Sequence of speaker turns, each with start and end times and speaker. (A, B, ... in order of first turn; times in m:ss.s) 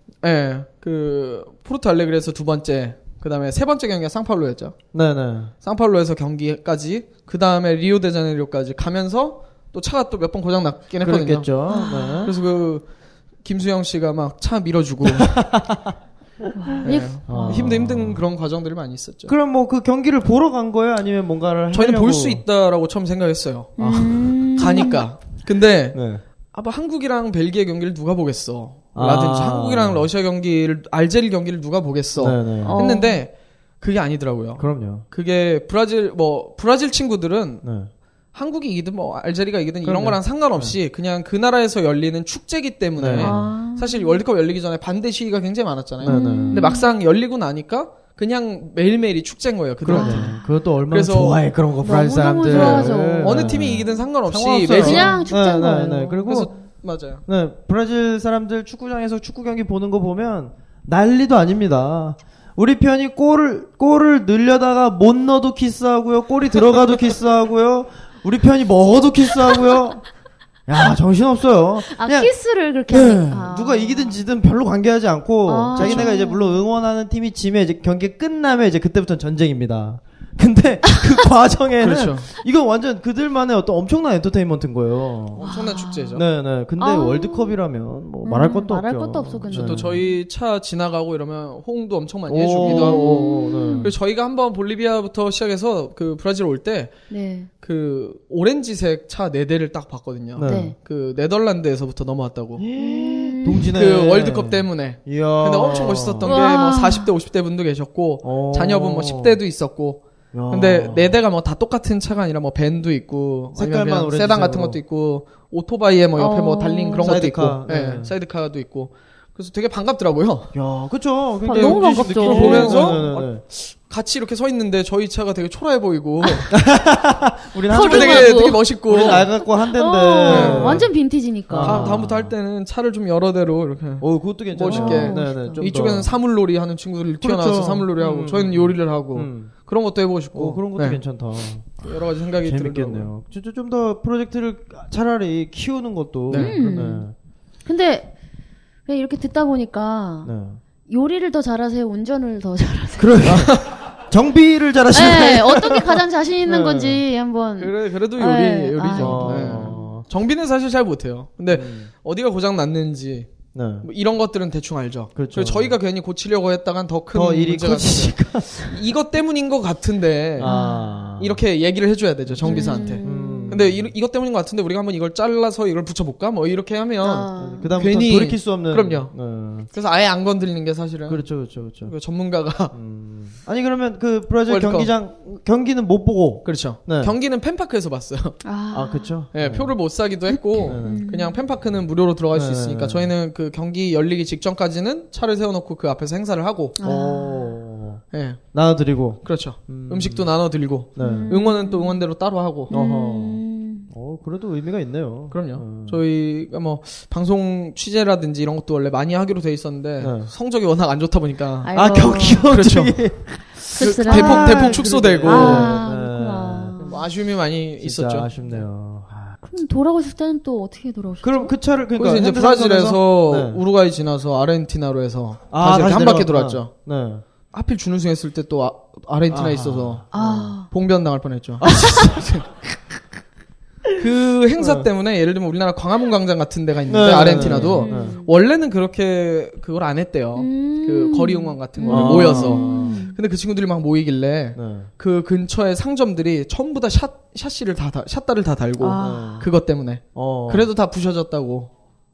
0:00.2-0:04.8 A
0:04.9-0:05.5 B
0:05.6-0:11.5 A
0:11.0-0:12.3 B
0:11.7-0:12.3 C
0:12.2-0:12.8 A
0:13.4-0:15.5 A
0:15.0-0:16.0 B
0:16.6-0:17.7 C
0:16.8-0:19.3 A
0:17.2-0:18.2 B
0:19.3-0:22.4 B
0:21.7-0:26.0 A
0:23.8-0:25.0 C
0:23.8-0:24.2 B
0:25.9-0:26.2 B
0:26.5-0:37.6 A
0:29.0-0:30.1 B
0:32.2-0:32.8 B
0:32.6-0:33.2 C
0:34.6-0:35.1 B
0:37.6-0:37.9 B
0:38.3-0:50.4 A
0:39.8-0:40.8 B
0:43.0-0:43.5 B
0:43.2-0:44.2 C
0:46.0-0:46.8 B
0:46.0-0:46.9 C
0:49.8-0:56.5 B
0:49.9-0:50.4 C
0:50.9-0:51.4 A
0:51.8-0:53.8 C
0:52.5-0:55.2 A
0:54.8-0:56.3 C
0:56.3-0:57.2 A
0:57.2-1:10.0 B
1:10.7-1:12.3 B
1:11.9-1:14.2 C
1:12.9-1:25.5 B
1:15.5-1:16.6 C
1:15.8-1:16.1 A
1:21.8-1:22.3 A
1:25.4-1:26.2 A
1:25.4-1:26.2 C
1:26.1-1:30.0 B
1:26.8-1:27.6 C
1:28.2-1:30.2 C
1:29.5-1:36.9 A
1:32.3-1:33.9 B
1:32.6-1:33.9 C
1:37.1-1:37.5 C
1:37.6-1:42.6 A
1:40.4-1:40.8 B
1:40.4-1:40.8 C
1:42.6-1:46.4 B
1:42.8-1:43.7 C
1:43.8-2:00.5 A
1:46.2-1:47.1 C
1:48.2-1:49.4 B
1:50.3-1:51.2 B
1:53.5-1:54.8 B
1:56.2-1:57.2 C
1:57.0-1:58.1 B
2:00.5-2:03.4 B
2:01.4-2:03.0 C
2:01.5-2:06.5 A
2:06.5-2:10.9 B
2:07.7-2:09.2 C
2:07.8-2:09.3 A
2:09.7-2:12.0 C
2:10.3-2:10.9 A
2:11.5-2:12.3 B
2:11.6-2:21.0 A
2:14.0-2:16.1 B
2:14.7-2:15.6 C
2:17.2-2:19.5 B
2:20.3-2:21.8 B
2:21.8-2:23.1 A
2:22.4-2:27.1 B
2:26.3-2:26.6 A
2:26.3-2:27.1 C
2:27.7-2:28.1 C
2:28.9-2:30.3 C
2:30.2-2:30.6 B
2:30.9-2:33.5 C
2:33.0-2:37.0 B
2:34.9-2:39.8 C
2:37.6-2:50.5 A
2:39.0-2:40.0 B
2:41.5-2:41.9 B
2:43.5-2:43.9 B
2:45.2-2:45.8 B
2:47.1-2:48.8 B
2:50.4-2:51.4 B
2:50.4-2:50.9 C
2:51.2-2:59.2 A
2:52.3-2:53.9 B
2:52.4-2:53.5 C
2:57.0-2:57.8 C
2:57.4-2:59.7 B
2:59.7-3:02.7 A
3:01.1-3:01.9 B
3:02.7-3:07.2 B
3:04.5-3:04.9 A
3:06.4-3:08.4 A
3:08.4-3:09.1 C
3:08.7-3:09.8 B
3:09.3-3:16.8 A
3:10.3-3:11.4 C
3:10.6-3:11.1 B
3:12.3-3:13.1 B
3:16.8-3:17.6 C
3:16.8-3:20.3 B
3:18.1-3:18.4 A
3:19.2-3:22.7 A
3:21.0-3:21.4 B
3:21.0-3:22.0 C
3:22.7-3:23.9 C
3:22.7-3:26.0 B
3:25.3-3:31.7 A
3:30.0-3:30.3 B
3:31.6-3:32.5 C
3:31.7-3:37.0 B
3:32.5-3:33.0 A
3:33.7-3:35.8 A
3:33.8-3:37.0 C
3:36.8-3:38.3 A
3:37.8-3:39.4 B
3:39.4-3:41.5 C
3:41.2-3:43.6 B
3:42.0-3:46.7 A
3:45.5-3:47.2 B
3:47.5-3:52.5 A
3:49.3-3:50.5 B
3:50.1-3:50.7 C
3:51.6-3:52.4 B
3:54.0-4:11.7 A
3:54.6-3:54.9 B
3:56.9-3:58.2 B
3:57.4-3:58.3 C
4:00.4-4:03.2 C
4:01.9-4:03.0 B
4:04.6-4:04.9 B
4:08.8-4:09.4 C
4:09.0-4:09.5 B
4:10.1-4:10.7 B